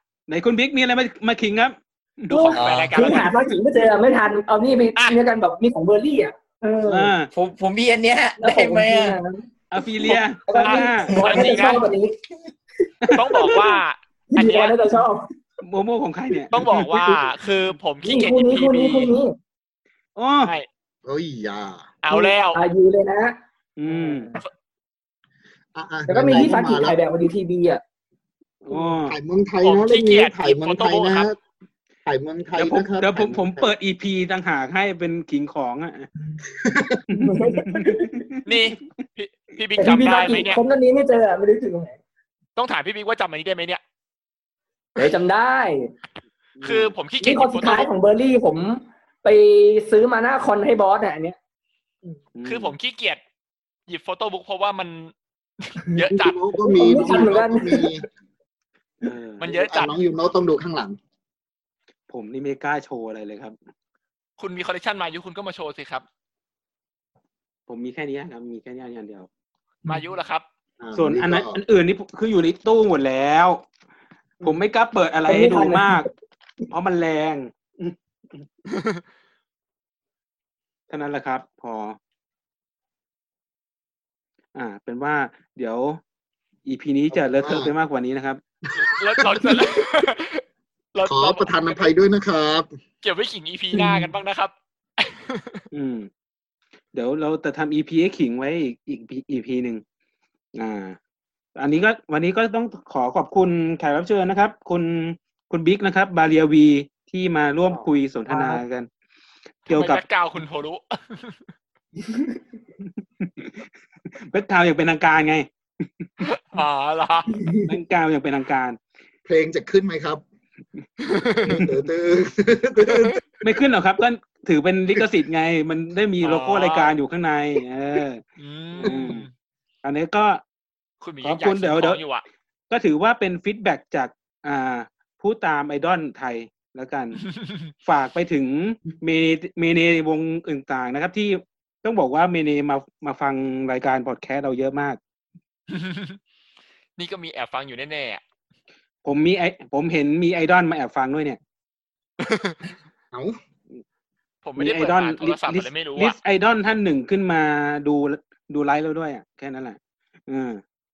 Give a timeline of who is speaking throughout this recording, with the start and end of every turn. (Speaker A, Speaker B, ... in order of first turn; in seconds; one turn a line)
Speaker A: 0.3-2.6
Speaker B: 2.3-3.3
Speaker C: 2.5-3.0
Speaker D: 3.0-7.1
Speaker A: 6.9-7.3
Speaker C: 7.3-9.2
Speaker D: 8.4-9.4
Speaker A: 9.7-11.1
Speaker D: 10.5-12.2
Speaker B: 10.5-11.9
Speaker C: 11.2-11.6
Speaker D: 12.9-13.7
Speaker B: 13.1-14.8
Speaker D: 14.3-15.3
Speaker A: 15.6-16.8
Speaker B: 16.5-19.2
Speaker D: 18.0-19.4
Speaker A: 20.2-20.5
Speaker E: 21.1-21.9
Speaker B: 22.0-22.6
Speaker D: 22.1-23.4
Speaker A: 23.8-24.3
Speaker D: 23.9-24.4
Speaker E: 25.8-27.0
Speaker D: 26.1-27.8
Speaker A: 28.6-29.1
Speaker E: 28.9-31.4
Speaker B: 29.6-31.3
Speaker E: 32.0-33.7
Speaker A: 32.6-36.1
Speaker E: 36.5-37.1
Speaker A: 37.1-38.4
Speaker D: 37.2-38.3
Speaker B: 38.5-40.6
Speaker D: 39.8-42.0
Speaker B: 42.6-43.8
Speaker D: 45.0-45.9
Speaker A: 46.6-46.9
Speaker B: 46.6-47.9
Speaker D: 47.2-51.4
Speaker A: 52.4-52.7
Speaker B: 52.5-53.2
Speaker B: 53.9-56.4
Speaker E: 56.1-58.0
Speaker D: 56.6-58.0
Speaker A: 59.0-59.4
Speaker B: 59.4-59.9
Speaker E: 59.5-61.0
Speaker A: 62.1-63.6
Speaker B: 64.4-66.0
Speaker A: 67.7-69.3
Speaker B: 69.9-70.4
Speaker E: 70.8-71.6
Speaker A: 71.0-73.6
Speaker A: 74.4-76.1
Speaker D: 75.3-76.1
Speaker A: 76.7-78.5
Speaker A: 80.9-82.0
Speaker A: 84.5-86.0
Speaker A: 86.7-88.4
Speaker E: 87.1-87.7
Speaker E: 88.8-89.8
Speaker B: 88.8-90.4
Speaker B: 90.9-91.5
Speaker E: 91.1-92.7
Speaker B: 93.0-95.6
Speaker D: 93.7-94.1
Speaker A: 95.7-96.1
Speaker A: 96.9-99.8
Speaker A: 100.6-101.0
Speaker A: 101.6-108.9
Speaker D: 108.3-108.6
Speaker A: 109.7-110.0
Speaker B: 109.7-111.3
Speaker A: 113.2-116.1
Speaker B: 116.2-117.3
Speaker D: 117.3-117.7
Speaker A: 117.7-118.8
Speaker E: 119.3-120.2
Speaker B: 121.0-121.6
Speaker E: 121.5-123.2
Speaker B: 122.8-123.2
Speaker A: 123.4-128.2
Speaker B: 126.2-126.9
Speaker B: 128.4-129.3
Speaker A: 128.8-129.3
Speaker A: 129.8-130.4
Speaker B: 131.0-132.2
Speaker A: 131.2-132.0
Speaker A: 132.7-137.2
Speaker A: 137.8-145.0
Speaker B: 145.7-146.2
Speaker B: 147.0-148.2
Speaker A: 149.0-151.4
Speaker B: 152.2-152.6
Speaker B: 154.4-156.2
Speaker A: 154.6-160.6